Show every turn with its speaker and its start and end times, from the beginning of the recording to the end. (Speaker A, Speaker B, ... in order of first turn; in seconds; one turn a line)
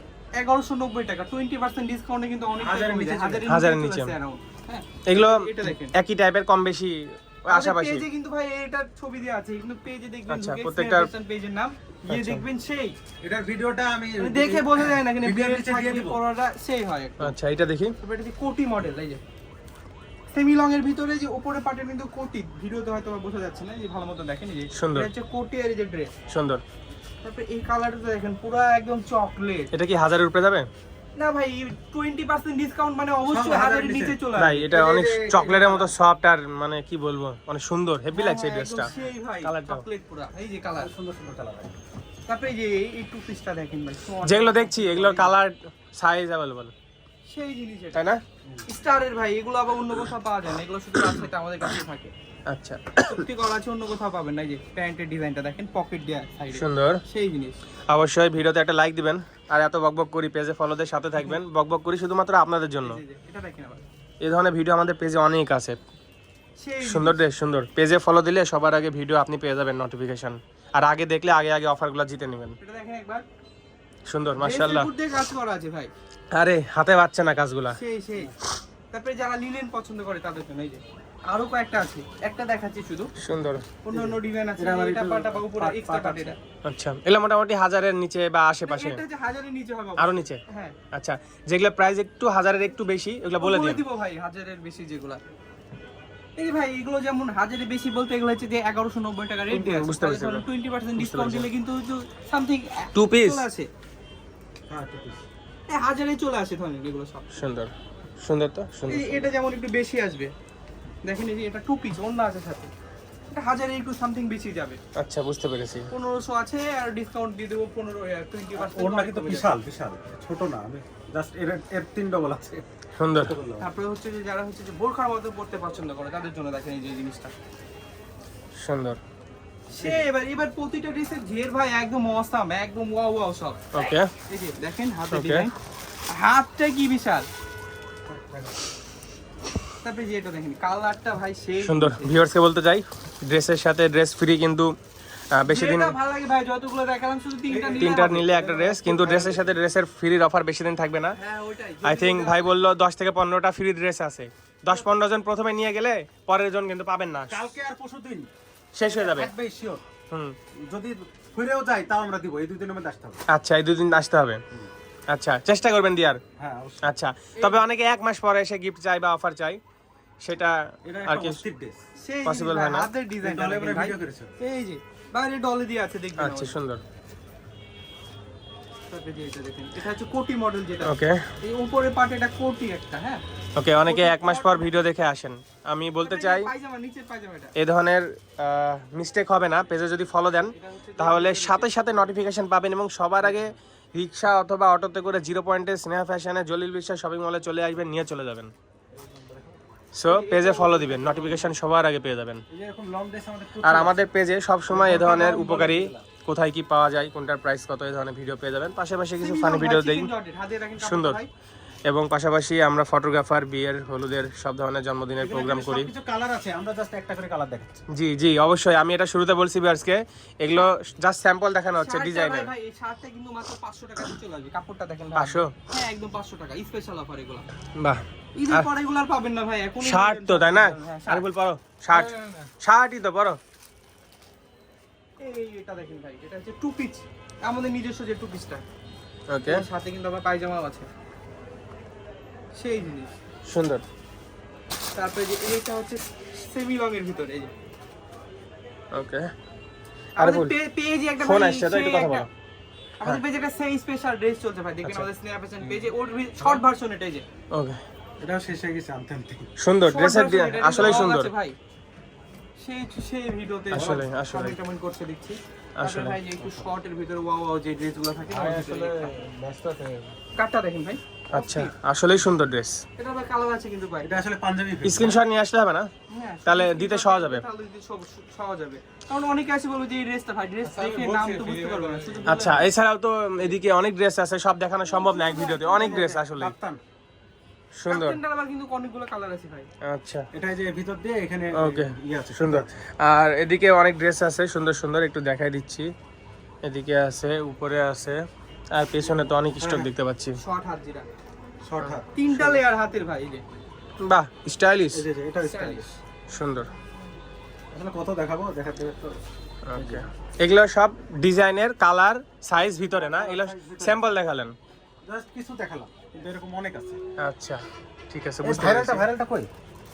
Speaker A: 0.4-5.9
Speaker B: 2.6-3.5
Speaker C: 3.5-4.1
Speaker C: 5.1-8.1
Speaker A: 7.5-12.9
Speaker C: 10.3-11.1
Speaker C: 12.1-12.4
Speaker B: 13.2-16.2
Speaker A: 14.2-17.4
Speaker C: 17.2-17.9
Speaker A: 18.0-19.2
Speaker A: 20.3-26.1
Speaker C: 24.8-25.1
Speaker C: 26.3-26.6
Speaker A: 27.2-29.7
Speaker C: 29.7-30.7
Speaker A: 31.2-34.6
Speaker B: 33.3-35.9
Speaker C: 34.4-38.9
Speaker A: 38.1-40.9
Speaker C: 39.4-39.8
Speaker B: 40.8-41.8
Speaker A: 42.3-45.4
Speaker C: 44.2-46.7
Speaker A: 47.3-48.1
Speaker C: 48.0-48.2
Speaker A: 48.7-52.1
Speaker C: 52.5-53.2
Speaker A: 53.1-57.6
Speaker C: 56.5-57.0
Speaker C: 57.9-63.0
Speaker A: 62.8-63.9
Speaker C: 64.2-65.8
Speaker A: 66.6-67.2
Speaker C: 66.8-72.6
Speaker A: 72.6-73.2
Speaker C: 74.1-74.9
Speaker A: 74.4-75.9
Speaker C: 76.3-77.8
Speaker A: 77.7-78.3
Speaker A: 78.9-83.1
Speaker C: 83.2-83.7
Speaker A: 83.8-86.4
Speaker B: 83.9-86.3
Speaker C: 86.7-89.0
Speaker A: 88.7-90.8
Speaker C: 90.0-93.8
Speaker A: 93.4-95.2
Speaker A: 96.4-103.7
Speaker C: 99.5-100.5
Speaker C: 101.0-101.5
Speaker C: 103.0-103.4
Speaker B: 104.7-105.3
Speaker A: 105.7-107.4
Speaker C: 107.3-109.3
Speaker A: 108.9-110.3
Speaker A: 111.0-112.7
Speaker A: 113.3-114.8
Speaker C: 115.0-115.9
Speaker A: 115.9-119.6
Speaker B: 118.6-122.6
Speaker C: 123.0-123.4
Speaker B: 123.2-123.7
Speaker A: 123.6-127.3
Speaker C: 128.6-129.0
Speaker A: 129.7-133.6
Speaker B: 129.8-130.1
Speaker C: 133.7-134.1
Speaker A: 134.3-135.5
Speaker C: 135.1-135.5
Speaker A: 136.1-137.3
Speaker B: 138.1-138.6
Speaker A: 139.8-142.2
Speaker C: 141.6-144.7
Speaker C: 145.3-145.9
Speaker A: 145.5-149.3
Speaker B: 147.5-149.4
Speaker C: 147.8-151.2
Speaker A: 151.2-152.5
Speaker C: 151.8-157.4
Speaker B: 157.3-158.3
Speaker C: 158.7-159.3
Speaker B: 159.0-159.8
Speaker B: 160.6-163.2
Speaker C: 163.3-164.4
Speaker C: 165.1-166.2
Speaker B: 166.4-166.9
Speaker C: 166.8-169.6
Speaker A: 167.4-167.6
Speaker C: 170.2-171.4
Speaker B: 170.8-171.8
Speaker A: 172.0-176.6
Speaker C: 172.2-172.9
Speaker B: 173.2-174.3
Speaker C: 176.2-176.8
Speaker A: 178.9-183.2
Speaker C: 180.9-181.3
Speaker C: 183.6-186.5
Speaker A: 183.8-184.7
Speaker A: 186.0-187.5
Speaker C: 187.6-198.5
Speaker A: 190.6-191.8
Speaker B: 198.9-199.6
Speaker C: 199.9-202.4
Speaker A: 200.1-201.5
Speaker B: 202.5-204.0
Speaker C: 203.6-210.1
Speaker B: 204.7-206.1
Speaker A: 209.2-211.3
Speaker C: 210.8-211.2
Speaker C: 211.9-215.9
Speaker B: 215.2-217.8
Speaker C: 217.9-222.5
Speaker A: 221.8-227.5
Speaker C: 225.2-225.5
Speaker C: 227.8-228.7
Speaker A: 228.4-231.2
Speaker C: 229.8-233.4
Speaker A: 231.9-232.5
Speaker A: 235.2-238.6
Speaker C: 239.3-239.7
Speaker A: 239.5-240.9
Speaker A: 242.6-243.1
Speaker C: 243.5-243.8
Speaker A: 244.9-247.5
Speaker C: 248.9-249.3
Speaker A: 250.2-252.3
Speaker C: 250.2-250.5
Speaker C: 251.2-252.3
Speaker A: 253.0-257.2
Speaker B: 255.6-255.9
Speaker C: 257.5-257.8
Speaker B: 258.2-259.5
Speaker C: 259.6-261.3
Speaker A: 259.9-261.6
Speaker A: 262.6-269.3
Speaker B: 263.7-264.1
Speaker C: 263.7-264.6
Speaker C: 265.8-266.2
Speaker B: 268.3-270.1
Speaker A: 270.3-271.7
Speaker C: 271.3-272.8
Speaker A: 273.0-274.2
Speaker B: 274.0-275.2
Speaker C: 274.8-275.9
Speaker A: 276.1-282.6
Speaker C: 276.5-277.4
Speaker B: 280.6-282.5
Speaker C: 282.3-286.5
Speaker B: 285.0-286.8
Speaker A: 285.1-286.1
Speaker C: 287.8-288.2
Speaker A: 287.9-289.7
Speaker C: 289.8-290.2
Speaker B: 290.3-292.8
Speaker C: 291.6-295.9
Speaker C: 296.6-298.2
Speaker C: 298.7-300.4
Speaker B: 299.6-299.9
Speaker A: 300.4-301.1
Speaker B: 301.6-302.1
Speaker C: 301.8-302.6
Speaker A: 302.1-303.4
Speaker C: 304.0-305.0
Speaker B: 304.9-305.9
Speaker A: 305.4-305.9
Speaker C: 306.3-306.7
Speaker B: 307.7-309.2
Speaker C: 309.6-314.6
Speaker B: 309.7-310.1
Speaker B: 312.9-314.0
Speaker B: 315.1-317.0
Speaker C: 317.2-319.1
Speaker B: 318.4-319.5